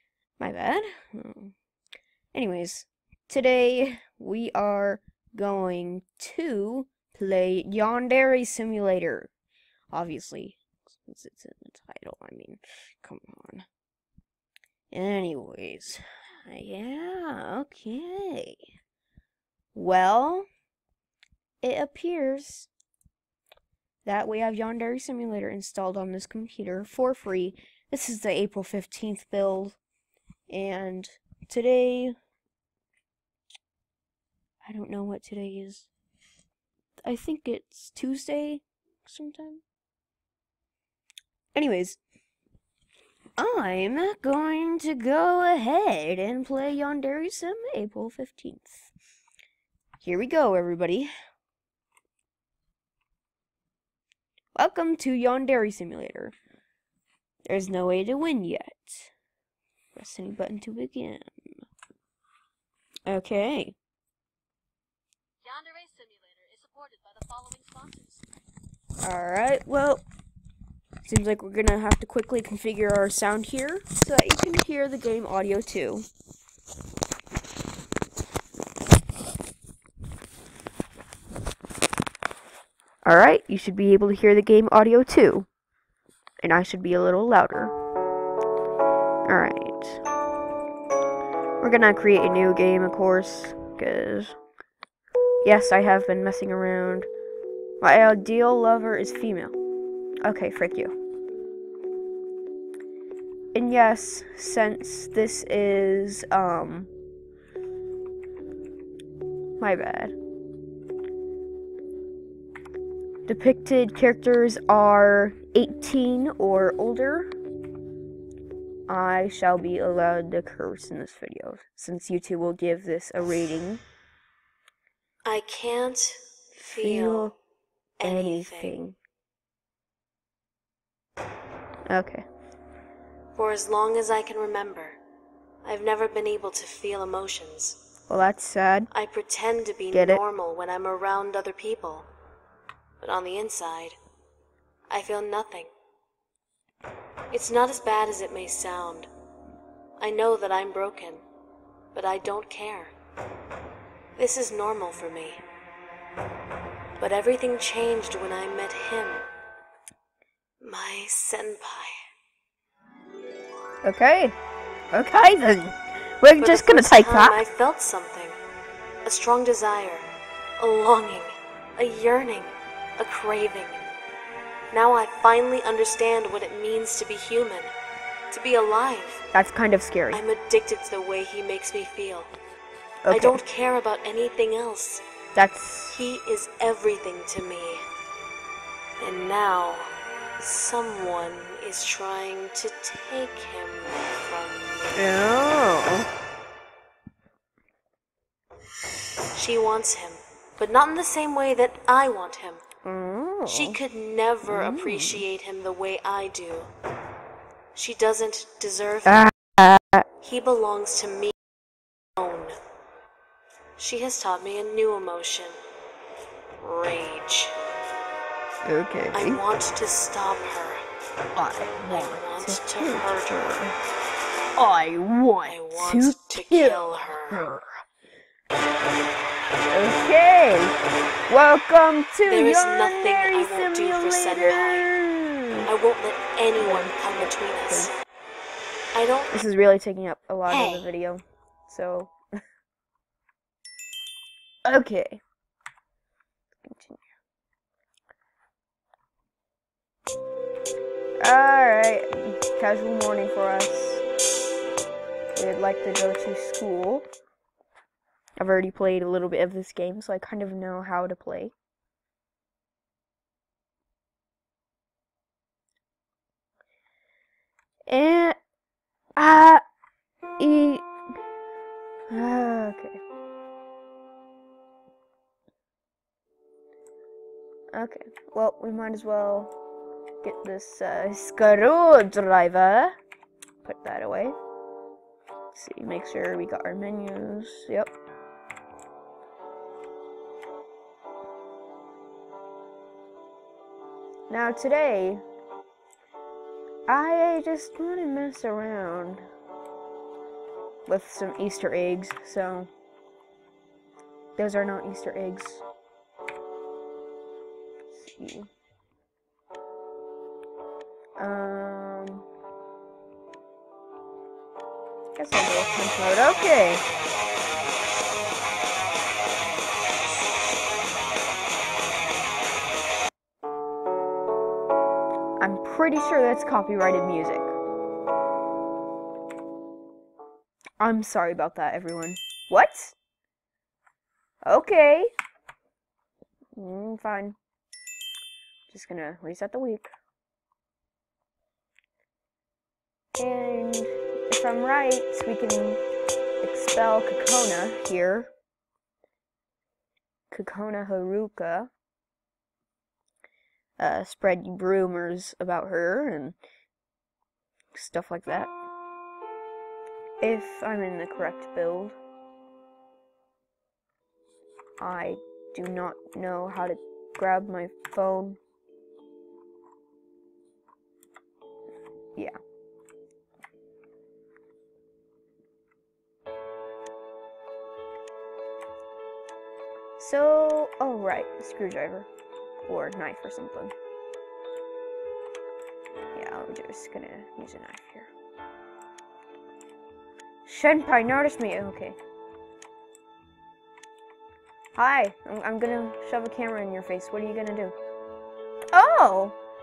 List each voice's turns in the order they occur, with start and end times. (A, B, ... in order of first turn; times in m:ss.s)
0:00.4-0:01.6 A
0:02.3-0:09.3 A
0:09.9-0:13.7 A
0:14.9-0:18.7 A
0:19.7-0:20.5 A
0:21.6-0:22.7 A
0:24.0-0:29.8 A
0:30.5-0:32.2 A
0:34.6-0:35.9 A
0:37.0-0:39.6 A
0:41.6-0:42.0 A
0:43.4-0:48.9 A
0:50.0-0:51.1 A
0:54.6-0:56.4 A
0:57.5-0:59.1 A
1:00.0-1:01.4 A
1:03.1-1:03.8 A
1:05.4-1:08.2 B
1:09.0-1:10.0 A
1:11.0-1:16.1 A
1:23.0-1:25.5 A
1:26.4-1:27.8 A
1:29.3-1:30.0 A
1:31.6-1:34.4 A
1:35.4-1:37.1 A
1:37.8-1:39.6 A
1:40.2-1:40.9 A
1:43.5-1:46.9 A
1:49.6-1:50.2 A
1:53.3-1:57.4 A
1:58.9-2:03.8 A
2:05.2-2:07.3 B
2:06.6-2:07.4 A
2:08.0-2:08.8 B
2:08.0-2:09.0 A
2:11.9-2:12.3 A
2:13.4-2:15.0 B
2:15.6-2:17.8 B
2:18.1-2:18.9 A
2:18.9-2:22.1 B
2:19.9-2:20.2 A
2:23.0-2:24.0 B
2:24.9-2:25.7 B
2:27.3-2:29.1 B
2:30.0-2:31.2 B
2:31.9-2:32.9 B
2:34.2-2:35.5 B
2:37.0-2:39.2 B
2:40.6-2:41.9 B
2:43.8-2:44.4 A
2:44.9-2:47.4 A
2:46.4-2:48.4 B
2:49.0-2:53.8 B
2:54.7-2:57.7 B
2:58.3-2:59.3 B
2:59.3-3:00.2 A
3:00.1-3:02.3 B
3:03.0-3:03.4 A
3:03.1-3:05.0 B
3:05.4-3:06.0 A
3:05.9-3:07.8 B
3:09.0-3:15.2 B
3:15.0-3:16.1 A
3:19.4-3:22.6 B
3:22.8-3:23.8 A
3:23.5-3:26.7 B
3:24.5-3:25.3 A
3:27.7-3:29.3 B
3:29.1-3:30.1 A
3:30.2-3:31.3 B
3:32.2-3:32.6 B
3:33.8-3:35.6 B
3:36.6-3:37.6 B
3:38.6-3:39.4 A
3:39.1-3:40.8 B
3:41.4-3:43.8 A
3:41.8-3:43.5 B
3:44.6-3:47.8 A
3:45.5-3:47.5 B
3:49.7-3:50.8 A
3:51.3-3:55.7 A
3:52.3-3:54.9 B
3:55.7-3:57.9 B
3:56.6-3:57.9 A
3:58.9-3:59.3 B
3:59.3-4:02.1 A
4:04.6-4:05.2 A
4:06.6-4:07.0 A
4:11.2-4:14.0 A
4:15.4-4:17.1 A
4:18.4-4:21.5 A
4:27.9-4:28.4 A
4:29.2-4:29.6 A
4:30.4-4:30.9 A
4:32.1-4:33.0 A
4:37.7-4:39.5 A
4:40.2-4:43.0 A
4:43.6-4:44.4 A
4:45.5-4:47.9 A
4:54.3-4:55.2 A
4:56.9-4:59.3 A
5:00.9-5:02.7 A
5:04.4-5:05.6 A
5:07.9-5:08.5 A
5:11.2-5:12.3 A
5:15.2-5:16.8 A
5:25.4-5:27.5 A
5:30.8-5:33.0 A
5:34.5-5:35.1 A
5:36.6-5:37.4 A
5:38.7-5:39.9 A
5:43.2-5:45.8 A
5:46.4-5:48.3 A
5:50.3-5:51.7 A
5:53.8-5:56.4 A
5:57.7-5:58.5 A
6:00.2-6:02.0 A
6:04.8-6:08.4 A
6:20.0-6:22.1 A
6:22.6-6:23.7 A
6:26.2-6:28.1 A
6:30.4-6:32.0 A
6:34.8-6:37.8 A
6:38.7-6:39.4 A